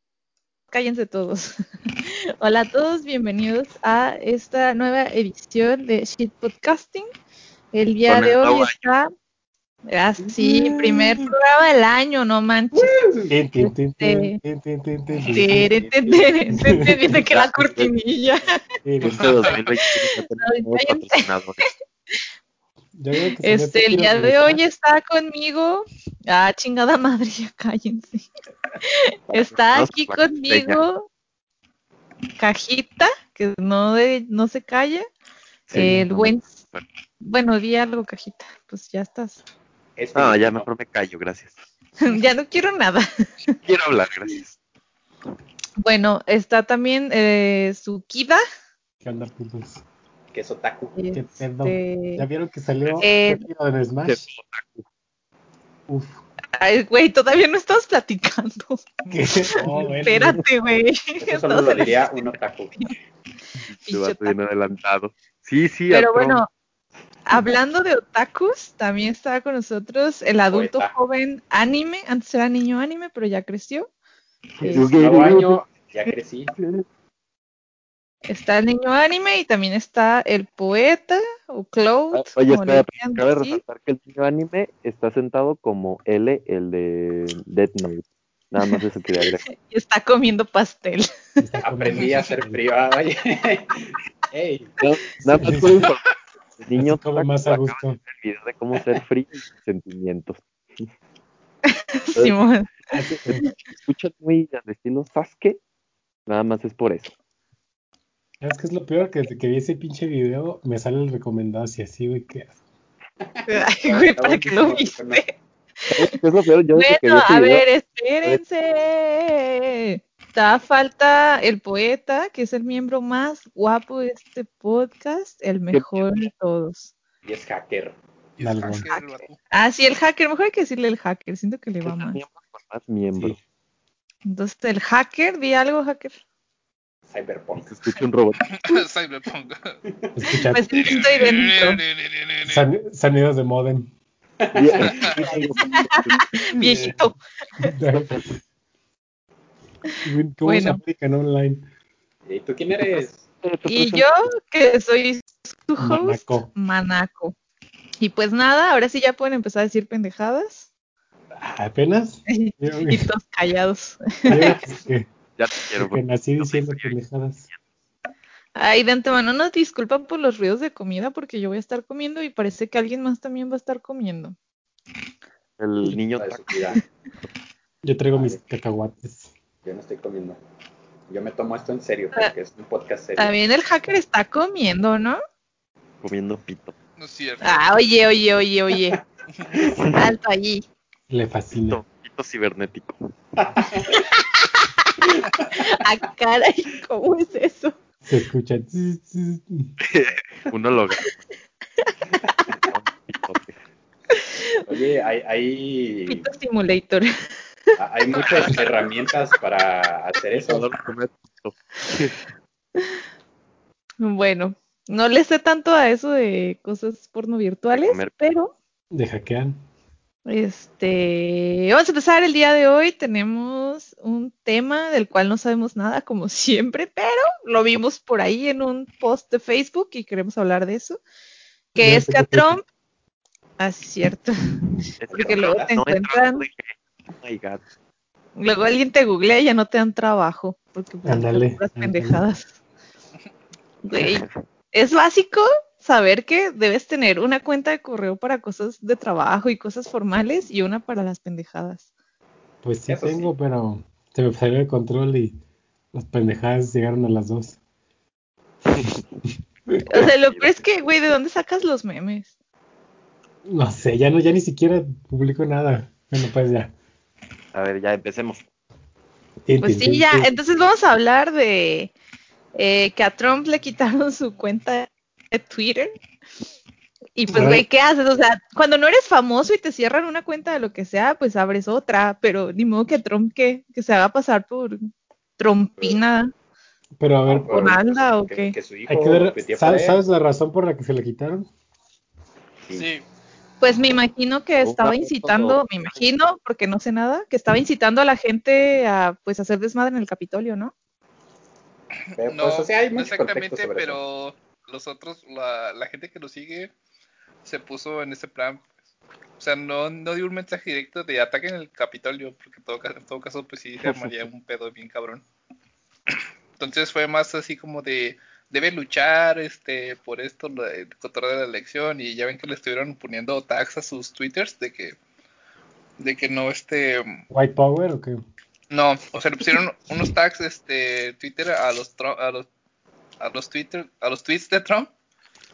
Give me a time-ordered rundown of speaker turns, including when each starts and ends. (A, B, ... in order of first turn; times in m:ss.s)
0:00.7-0:07.1 A
0:07.7-0:09.1 A
0:08.1-0:08.9 B
0:09.9-0:12.9 A
0:12.7-0:13.4 C
0:13.3-0:15.7 D
0:13.6-0:14.4 A
0:15.3-0:18.6 A
0:15.6-0:16.2 C
0:16.5-0:17.2 D
0:17.3-0:17.9 B
0:18.8-0:19.4 D
0:19.0-0:21.7 B
0:19.1-0:19.6 E
0:19.7-0:22.2 A
0:23.0-0:24.6 D
0:23.4-0:28.3 A
0:28.8-0:31.1 A
0:29.3-0:30.8 B
0:32.4-0:35.1 A
0:35.7-0:36.8 B
0:35.7-0:36.6 A
0:37.2-0:39.4 A
0:40.0-0:40.7 C
0:40.1-0:41.6 B
0:42.0-0:43.1 A
0:43.6-0:44.6 B
0:45.8-0:48.4 A
0:49.0-0:49.8 D
0:50.3-0:51.0 C
0:51.0-0:52.3 A
0:51.1-0:54.3 D
0:53.0-0:53.4 A
0:54.0-0:54.8 B
0:55.9-0:56.1 D
0:56.6-0:59.0 A
0:59.1-1:00.4 D
1:00.0-1:02.9 A
1:01.2-1:02.8 C
1:03.7-1:06.4 B
1:03.8-1:04.4 A
1:05.9-1:06.5 A
1:07.3-1:13.9 A
1:10.5-1:10.9 C
1:14.6-1:14.9 A
1:14.6-1:15.6 B
1:14.8-1:16.5 C
1:16.6-1:16.8 B
1:18.3-1:23.6 A
1:22.1-1:29.4 B
1:29.5-1:31.1 A
1:31.4-1:32.6 D
1:31.6-1:34.8 C
1:34.8-1:36.0 B
1:35.2-1:35.9 D
1:36.6-1:40.9 B
1:36.8-1:38.0 D
1:41.7-1:43.5 A
1:42.2-1:42.4 B
1:42.9-1:43.4 D
1:43.2-1:45.6 B
1:46.3-1:47.1 B
1:48.4-1:52.5 D
1:53.2-1:55.3 C
1:53.5-1:55.3 A
1:55.9-1:57.7 B
1:56.7-2:06.9 A
2:05.7-2:06.3 B
2:07.2-2:08.0 C
2:08.4-2:09.4 E
2:08.4-2:08.9 D
2:08.9-2:12.2 A
2:11.8-2:13.4 B
2:14.3-2:16.2 A
2:17.1-2:17.9 C
2:17.7-2:18.8 B
2:18.5-2:19.8 E
2:20.2-2:21.0 D
2:20.5-2:21.8 A
2:20.8-2:22.6 E
2:22.4-2:23.9 D
2:24.4-2:25.1 C
2:24.5-2:26.9 B
2:25.1-2:25.9 D
2:25.3-2:27.7 A
2:26.6-2:27.0 D
2:27.6-2:28.3 D
2:28.1-2:28.4 B
2:29.9-2:30.8 A
2:30.0-2:31.6 D
2:32.3-2:33.3 C
2:32.9-2:34.3 B
2:33.7-2:37.4 A
2:35.8-2:36.5 D
2:38.0-2:40.7 A
2:41.4-2:43.1 D
2:42.3-2:44.6 A
2:44.3-2:45.1 D
2:45.4-2:47.0 B
2:45.8-2:47.4 D
2:48.6-2:54.4 A
2:55.6-2:56.6 B
2:56.2-2:56.8 C
2:57.8-2:59.3 D
2:58.1-2:58.4 C
2:59.6-3:00.4 C
3:01.1-3:03.3 C
3:03.2-3:05.2 A
3:06.0-3:06.8 B
3:07.0-3:07.6 E
3:07.4-3:09.0 A
3:09.6-3:10.1 B
3:09.9-3:10.6 A
3:11.1-3:11.8 D
3:11.6-3:13.1 B
3:13.4-3:14.0 C
3:13.9-3:14.9 A
3:15.6-3:17.8 A
3:18.0-3:19.7 D
3:19.8-3:21.2 B
3:22.7-3:23.6 B
3:24.2-3:24.4 A
3:24.7-3:26.3 C
3:26.1-3:27.2 A
3:27.8-3:30.7 C
3:28.1-3:28.6 E
3:30.4-3:32.2 B
3:34.0-3:38.5 A
3:37.7-3:38.2 B
3:38.9-3:39.6 D
3:40.3-3:51.0 A
3:51.7-3:52.6 A
3:51.8-3:52.6 D
3:53.6-3:54.4 A
3:55.0-3:57.6 B
3:55.1-3:55.7 C
3:55.1-3:56.4 A
3:58.4-4:02.5 A
4:01.0-4:02.2 D
4:03.8-4:11.8 A
4:03.9-4:04.4 B
4:12.6-4:15.4 D
4:12.9-4:13.3 C
4:15.9-4:17.6 D
4:19.9-4:22.3 A
4:19.9-4:20.6 B
4:23.4-4:26.7 D
4:27.5-4:28.4 B
4:29.4-4:30.4 D
4:29.6-4:31.9 A
4:32.6-4:35.9 A
4:37.2-4:46.3 A
4:37.3-4:37.6 D
4:47.0-4:47.6 D
4:47.3-4:50.0 C
4:47.5-4:48.6 A
4:48.9-4:51.5 D
4:52.7-4:53.0 E
4:53.6-5:00.7 A
4:54.6-4:56.0 B
5:02.2-5:04.0 C
5:02.3-5:06.7 E
5:07.4-5:08.6 E
5:09.4-5:15.2 E
5:13.9-5:14.2 B
5:16.6-5:25.0 E
5:26.0-5:27.2 E
5:27.3-5:28.2 D
5:28.7-5:32.5 E
5:33.2-5:34.9 E